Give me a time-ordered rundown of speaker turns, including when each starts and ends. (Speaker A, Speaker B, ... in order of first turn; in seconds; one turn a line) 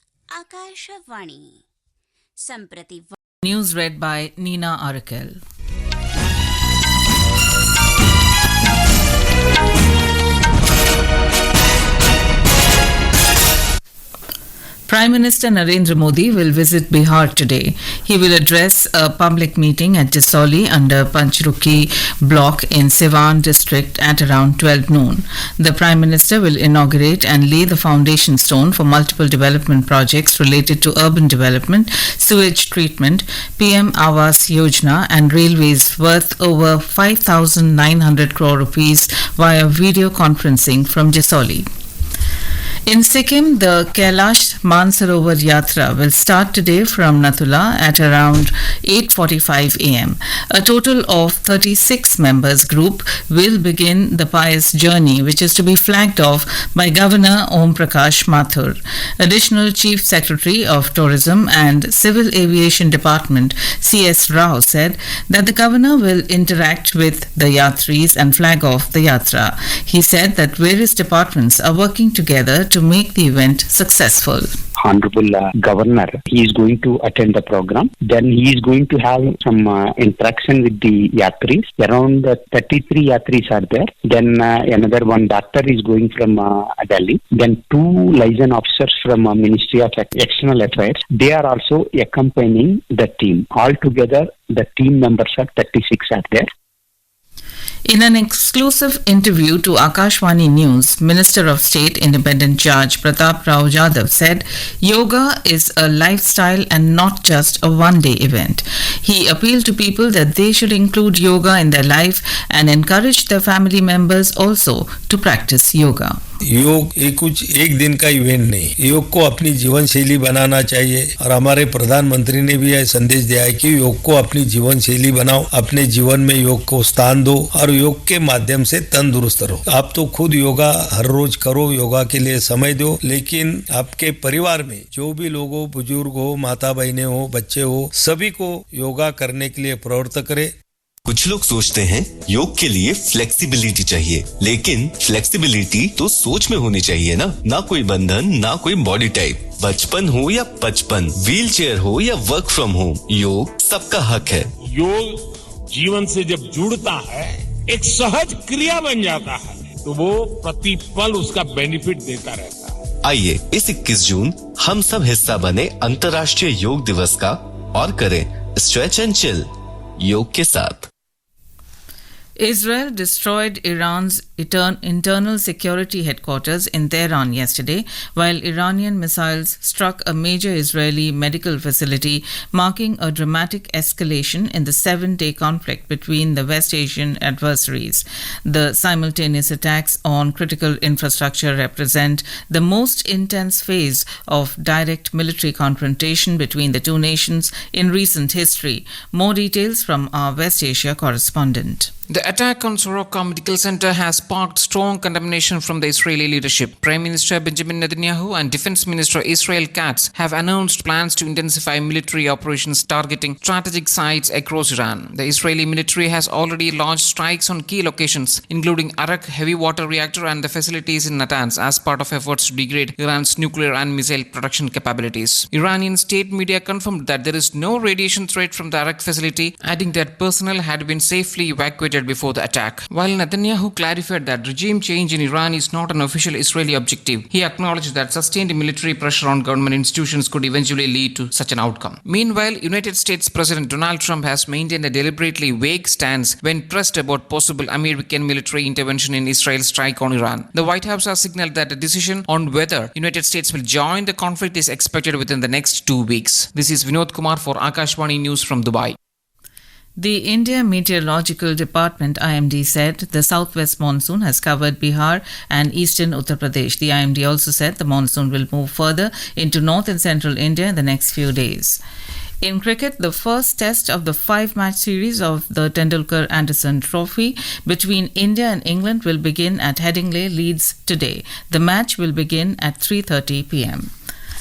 Speaker A: 0.3-1.6
Speaker A: 2.4-3.1
Speaker B: 3.4-5.4
Speaker B: 14.9-41.7
Speaker B: 42.9-74.5
Speaker C: 74.8-96.5
Speaker B: 97.9-116.2
Speaker D: 116.5-140.5
Speaker E: 141.1-154.5
Speaker F: 154.7-162.8
Speaker E: 163.0-170.9
Speaker B: 172.4-201.9
Speaker G: 202.1-259.0
Speaker B: 260.0-271.8
Speaker B: 272.4-283.9